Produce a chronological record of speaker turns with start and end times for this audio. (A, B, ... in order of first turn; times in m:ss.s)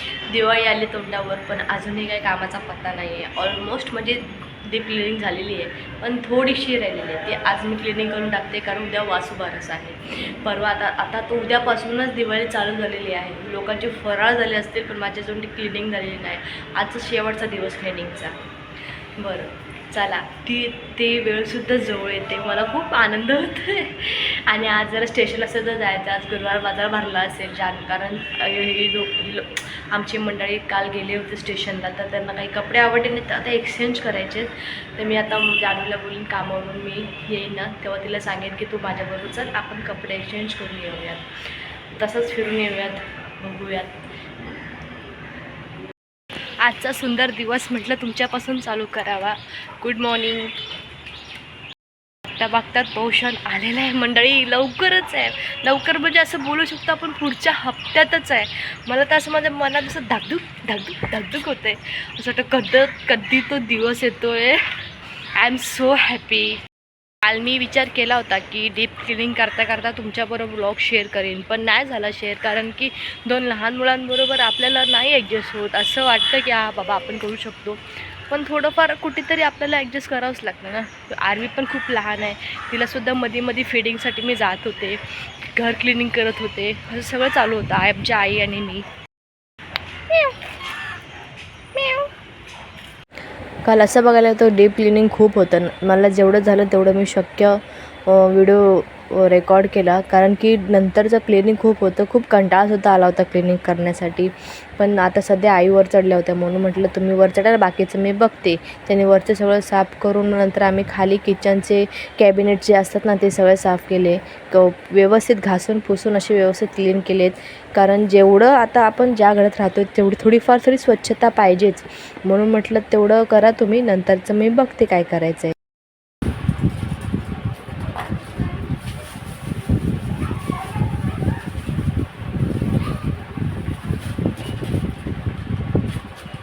0:00.3-0:18.4 A
0:19.2-0:41.3 A
0:41.9-0:44.0 A
0:46.6-0:50.5 A
0:52.3-1:04.8 A
1:05.3-1:06.6 A
1:07.2-1:28.9 A
1:31.7-1:32.1 A
1:33.6-2:05.5 A